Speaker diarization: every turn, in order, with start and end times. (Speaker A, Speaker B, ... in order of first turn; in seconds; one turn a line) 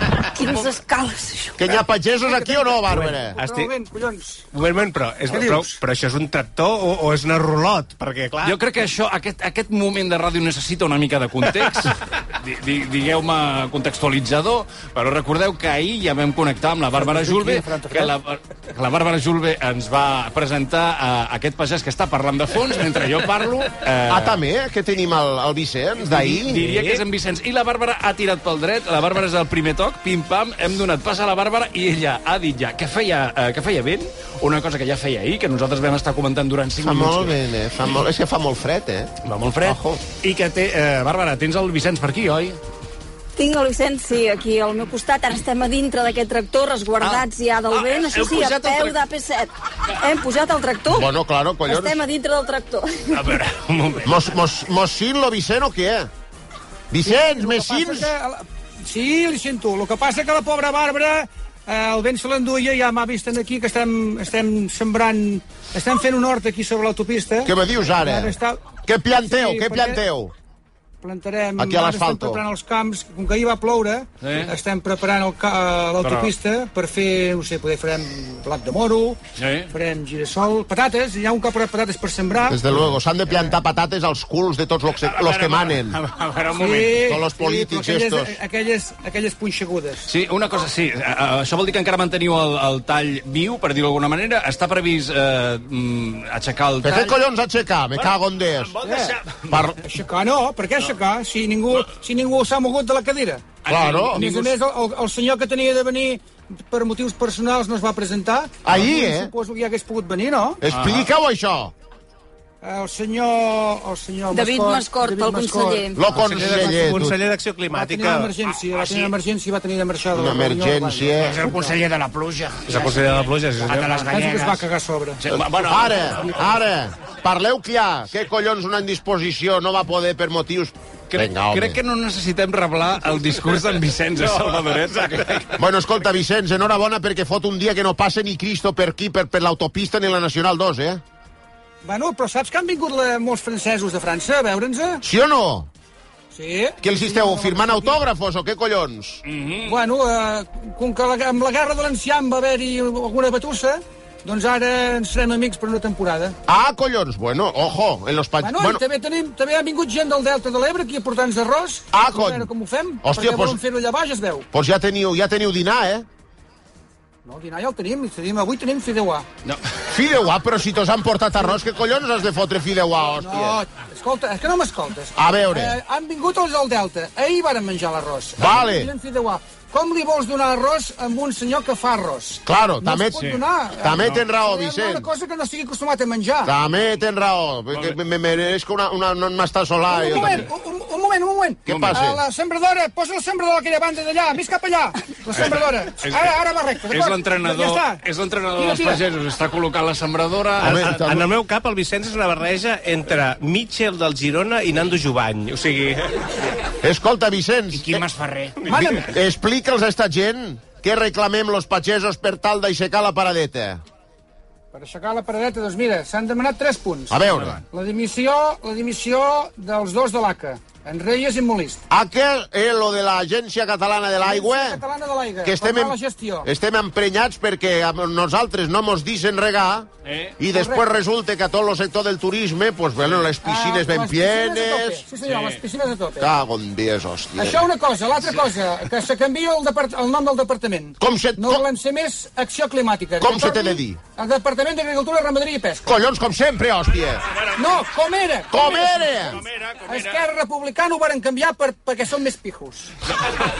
Speaker A: 0.3-1.6
Speaker B: 1.6-3.4
Speaker C: 2.2-4.5
Speaker D: 2.9-3.7
Speaker D: 4.5-8.6
Speaker C: 5.2-5.8
Speaker E: 8.4-24.4
Speaker C: 17.0-18.1
Speaker B: 24.1-26.7
Speaker E: 26.0-37.4
Speaker D: 26.6-27.0
Speaker B: 36.8-40.0
Speaker E: 39.2-42.6
Speaker A: 43.4-51.1
Speaker E: 47.0-49.0
Speaker B: 50.9-52.0
Speaker A: 51.6-53.4
Speaker E: 53.2-54.2
Speaker B: 54.0-56.1
Speaker B: 56.9-58.1
Speaker C: 57.0-70.0
Speaker B: 67.4-68.3
Speaker B: 68.8-70.3
Speaker C: 71.0-79.2
Speaker B: 71.6-72.4
Speaker E: 74.2-74.5
Speaker E: 76.0-76.3
Speaker E: 79.3-79.7
Speaker C: 79.7-82.6
Speaker B: 82.5-86.0
Speaker E: 84.9-87.1
Speaker C: 86.5-90.1
Speaker B: 87.0-88.4
Speaker E: 90.0-97.2
Speaker B: 96.8-98.8
Speaker E: 98.0-99.6
Speaker C: 98.8-99.1
Speaker B: 99.5-99.8
Speaker C: 99.8-103.4
Speaker E: 103.6-104.5
Speaker B: 103.7-104.2
Speaker C: 104.1-110.6
Speaker B: 108.6-109.3
Speaker B: 110.6-111.7
Speaker E: 110.7-111.1
Speaker C: 112.6-116.0
Speaker A: 114.3-116.0
Speaker B: 115.9-117.2
Speaker D: 116.0-118.3
Speaker C: 116.6-116.8
Speaker C: 117.7-121.7
Speaker E: 118.7-119.1
Speaker B: 120.1-121.5
Speaker E: 121.2-124.6
Speaker D: 122.7-124.1
Speaker C: 124.0-125.2
Speaker E: 125.2-126.2
Speaker B: 125.3-131.8
Speaker E: 131.1-135.6
Speaker B: 135.6-141.0
Speaker C: 141.8-145.0
Speaker B: 145.0-145.7
Speaker C: 146.3-148.0
Speaker B: 146.8-149.2
Speaker E: 149.2-149.8
Speaker C: 149.6-156.3
Speaker B: 156.5-158.8
Speaker C: 158.4-164.5
Speaker B: 161.9-162.5
Speaker B: 163.0-163.6
Speaker B: 164.5-166.1
Speaker C: 167.2-169.2
Speaker B: 169.9-173.6
Speaker C: 173.1-186.5
Speaker B: 175.2-175.8
Speaker B: 178.4-178.9
Speaker B: 182.4-183.2
Speaker B: 183.8-185.1
Speaker E: 183.9-184.2
Speaker B: 186.4-190.5
Speaker E: 187.7-188.0
Speaker C: 189.9-198.0
Speaker E: 190.2-190.4
Speaker B: 191.7-192.2
Speaker E: 191.7-192.0
Speaker E: 195.3-196.3
Speaker E: 196.9-201.0
Speaker C: 198.5-199.0
Speaker D: 200.6-206.3
Speaker B: 200.6-201.3
Speaker B: 206.8-208.1
Speaker E: 207.7-208.6
Speaker C: 208.7-209.1
Speaker B: 208.7-213.8
Speaker C: 214.7-221.8
Speaker B: 217.1-217.6
Speaker E: 217.3-217.6
Speaker B: 221.9-224.8
Speaker C: 224.2-226.5
Speaker B: 225.4-229.9
Speaker E: 230.0-230.4
Speaker B: 230.4-235.0
Speaker C: 230.5-230.9
Speaker E: 233.0-233.3
Speaker C: 233.4-236.3
Speaker E: 235.2-235.6
Speaker B: 236.2-237.6
Speaker C: 237.4-246.0
Speaker B: 241.0-241.7
Speaker B: 243.2-244.0
Speaker B: 245.8-247.2
Speaker C: 247.5-248.8
Speaker B: 248.5-249.4
Speaker E: 248.6-250.2
Speaker C: 249.8-252.9